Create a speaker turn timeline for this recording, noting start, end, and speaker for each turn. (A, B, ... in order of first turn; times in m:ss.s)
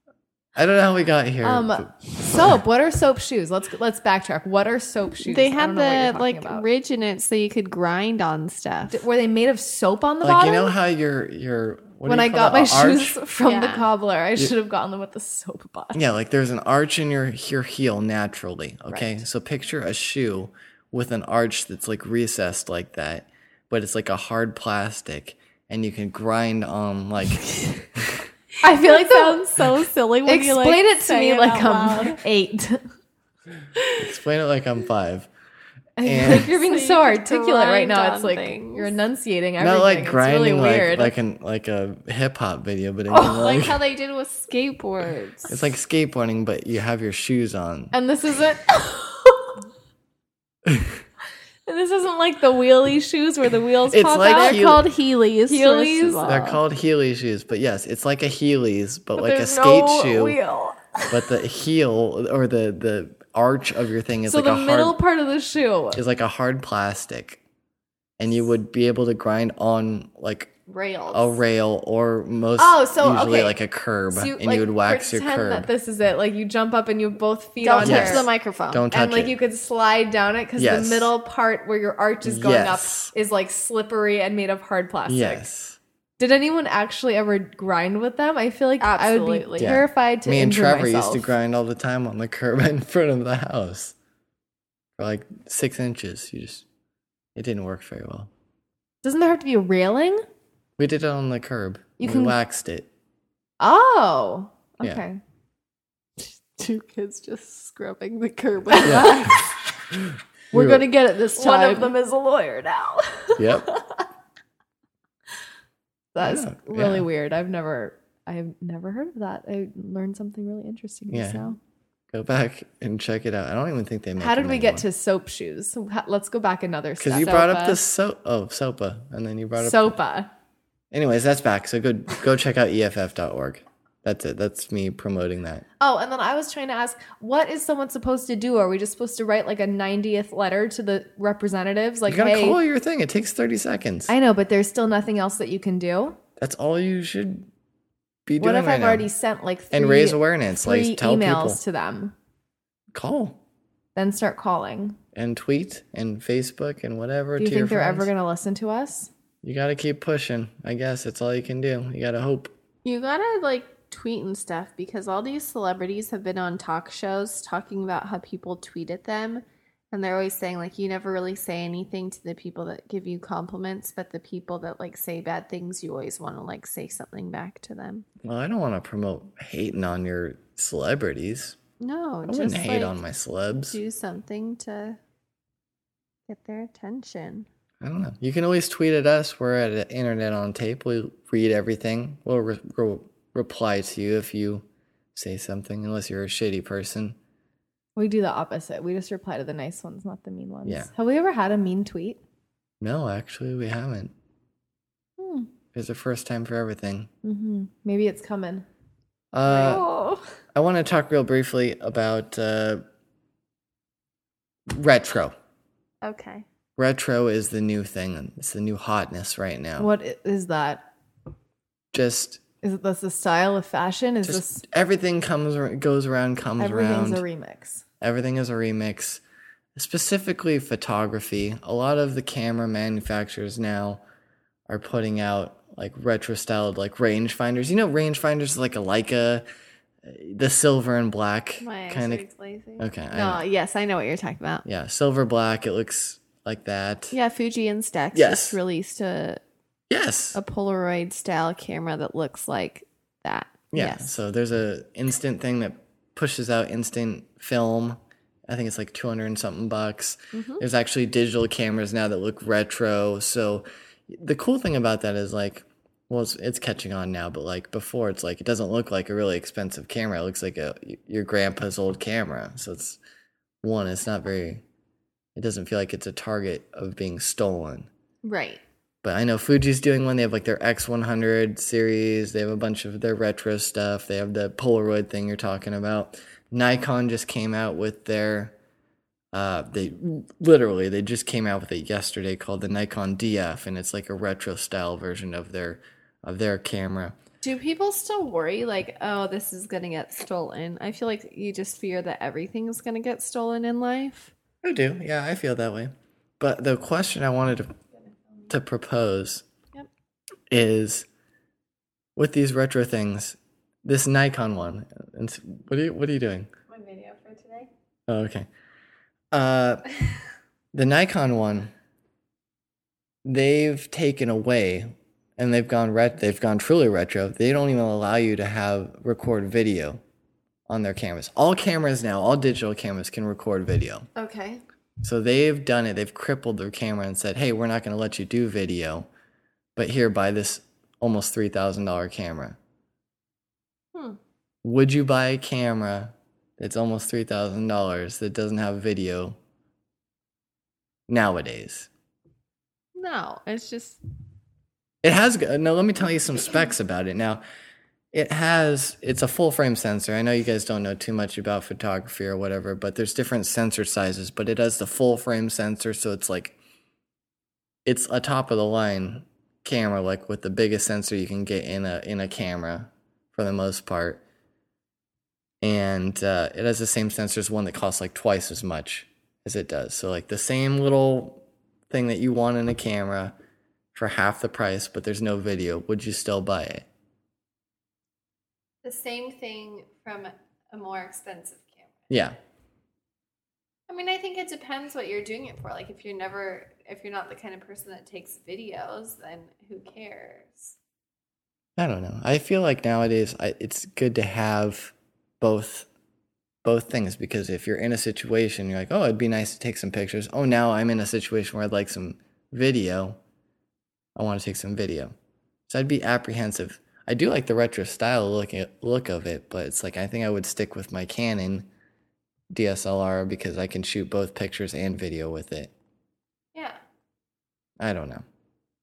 0:00.6-0:02.6 A
0:01.4-0:06.7 B
0:05.2-0:09.0 C
0:08.9-0:10.8 B
0:10.2-0:13.2 A
0:12.0-0:16.0 B
0:13.4-0:13.9 C
0:15.9-0:28.2 A
0:28.6-0:32.2 C
0:28.6-0:32.9 B
0:34.0-0:35.3 A
0:36.0-0:41.1 B
0:36.0-0:36.5 A
0:36.3-0:38.9 C
0:39.6-0:43.8 A
0:43.1-0:45.7 C
0:45.5-0:47.9 A
0:47.9-0:49.5 B
0:50.7-0:51.0 A
0:51.7-0:54.8 B
0:53.9-0:54.8 A
0:54.3-0:56.6 C
0:55.5-0:56.5 B
0:56.2-1:00.4 A
0:59.2-1:01.4 B
1:01.1-1:05.0 A
1:04.3-1:06.0 B
1:05.9-1:07.4 A
1:08.2-1:10.5 A
1:10.7-1:11.4 C
1:11.1-1:15.7 A
1:12.6-1:13.6 B
1:14.1-1:18.3 B
1:17.6-1:18.8 C
1:17.8-1:19.4 A
1:18.9-1:25.4 B
1:20.6-1:21.1 A
1:22.2-1:23.1 A
1:25.1-1:25.8 A
1:26.2-1:31.3 B
1:28.8-1:29.7 C
1:29.6-1:34.0 A
1:35.0-1:36.6 A
1:37.4-1:38.3 A
1:39.0-1:40.2 B
1:40.8-1:42.9 A
1:42.0-1:42.4 B
1:43.6-1:45.2 B
1:46.2-1:49.4 C
1:48.7-1:49.3 B
1:48.8-1:49.3 A
1:50.5-1:54.1 B
1:50.5-1:50.9 A
1:50.6-1:52.0 C
1:53.4-1:53.7 A
1:56.1-2:01.6 B
1:56.2-1:57.1 A
2:01.1-2:01.4 A
2:02.1-2:04.9 A
2:04.2-2:07.8 B
2:07.0-2:10.0 A
2:09.6-2:10.3 B
2:10.9-2:15.6 A
2:15.8-2:22.6 B
2:22.1-2:24.1 A
2:24.1-2:26.2 B
2:26.4-2:27.5 A
2:28.3-2:29.1 A
2:28.4-2:32.1 B
2:29.7-2:31.6 A
2:32.9-2:33.4 A
2:34.0-2:35.0 B
2:35.2-2:38.1 A
2:37.4-2:39.1 B
2:39.4-2:42.5 A
2:42.8-2:58.1 C
2:58.2-3:01.6 A
3:01.8-3:03.0 C
3:02.3-3:03.8 A
3:03.7-3:05.0 C
3:06.3-3:07.5 C
3:07.8-3:17.2 A
3:18.0-3:22.2 B
3:20.6-3:20.9 A
3:22.8-3:24.1 A
3:25.2-3:25.5 B
3:25.7-3:27.1 A
3:27.2-3:28.6 B
3:29.3-3:29.8 A
3:29.5-3:30.2 B
3:30.5-3:32.8 A
3:34.7-3:35.4 A
3:36.0-3:36.5 C
3:36.8-3:39.9 A
3:39.8-3:40.8 B
3:41.9-3:42.4 A
3:42.6-3:44.6 B
3:44.2-3:47.2 A
3:46.6-3:47.8 B
3:48.0-3:49.2 A
3:49.8-3:54.0 A
3:54.7-3:59.4 A
4:00.0-4:02.2 A
4:01.6-4:04.6 C
4:02.8-4:03.4 A
4:04.6-4:07.2 A
4:07.1-4:09.4 C
4:08.1-4:08.6 A
4:09.9-4:10.4 A
4:10.3-4:14.2 C
4:13.7-4:33.0 A
4:20.3-4:20.6 C
4:33.6-4:34.6 A
4:35.4-4:37.9 A
4:38.2-4:38.6 C
4:39.0-4:48.6 A
4:49.3-4:57.2 A
4:57.4-5:04.3 C
5:04.6-5:07.8 A
5:08.0-5:08.4 C
5:08.5-5:09.4 A
5:10.5-5:11.1 A
5:12.2-5:16.5 A
5:16.7-5:17.7 C
5:18.1-5:18.5 A
5:19.3-5:19.8 A
5:20.7-5:21.7 A
5:23.2-5:30.0 A
5:30.7-5:34.1 A
5:34.2-5:34.6 C
5:35.0-5:39.1 A
5:39.8-5:42.6 A
5:43.9-5:44.2 C
5:44.6-5:49.4 A
5:51.1-5:51.9 A
5:53.0-5:54.0 C
5:55.0-5:57.4 A
5:58.1-6:06.6 A
6:07.8-6:14.2 A
6:15.6-6:23.4 A
6:23.9-6:26.9 A
6:28.8-6:32.0 C
6:32.1-6:32.4 A
6:33.9-6:40.8 C
6:41.8-6:45.9 A
6:46.6-6:53.2 A
6:54.2-6:55.2 A
6:55.7-7:01.7 A
7:02.5-7:05.7 A
7:07.8-7:08.2 A